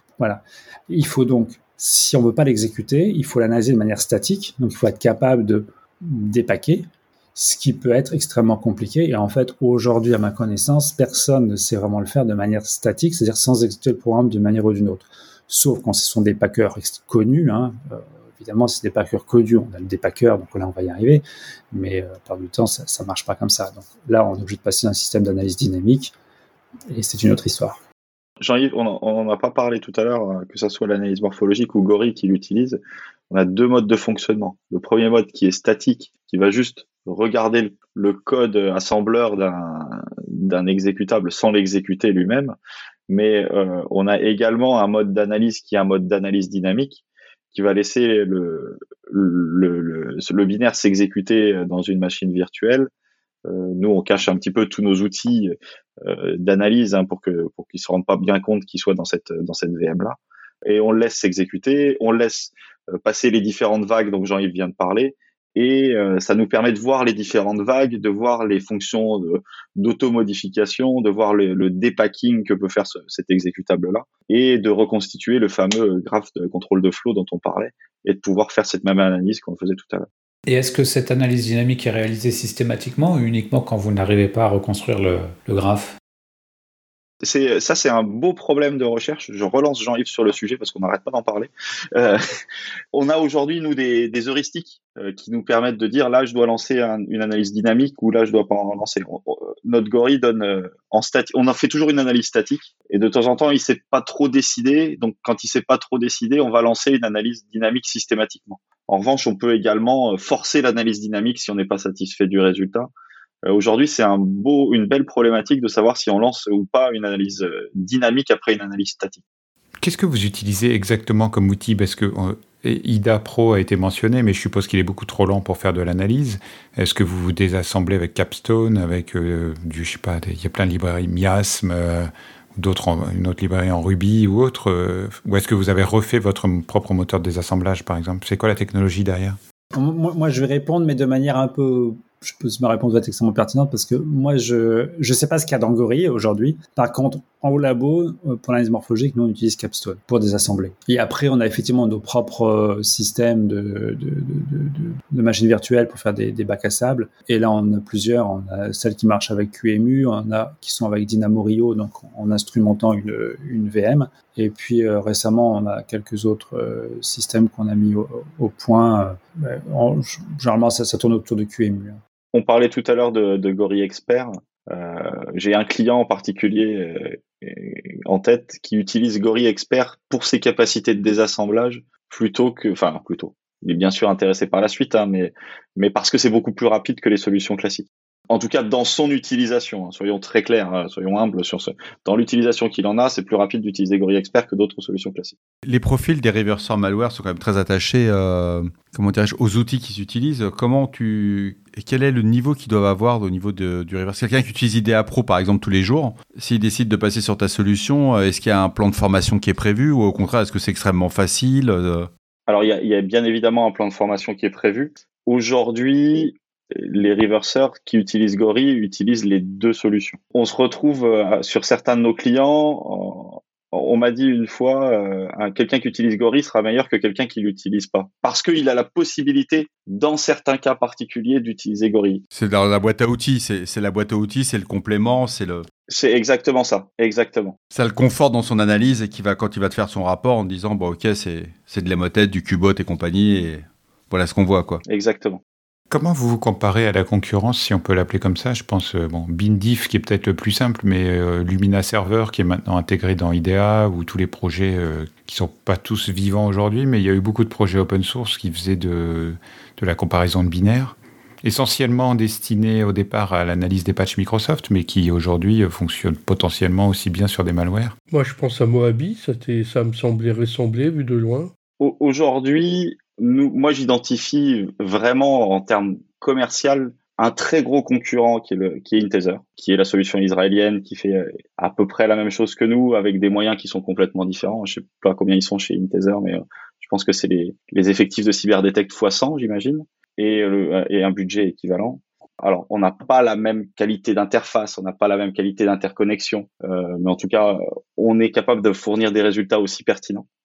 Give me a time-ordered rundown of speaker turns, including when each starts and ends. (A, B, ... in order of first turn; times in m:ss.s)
0:00.2-0:26.1 A
0:26.9-0:27.8 A
0:28.4-0:42.6 B
0:43.1-0:52.9 B
0:53.5-1:20.1 B
1:20.5-1:26.0 C
1:27.2-1:32.2 B
1:32.9-1:52.9 B
1:53.5-1:59.2 B
1:59.8-2:19.4 D
2:19.7-2:52.0 A
2:52.3-3:15.4 B
3:15.7-3:32.1 E
3:32.5-3:52.2 B
3:52.3-3:55.7 E
3:55.9-3:57.6 B
3:57.7-4:04.8 E
4:04.9-4:05.4 B
4:05.9-4:28.0 D
4:28.1-4:31.5 F
4:31.8-5:00.3 B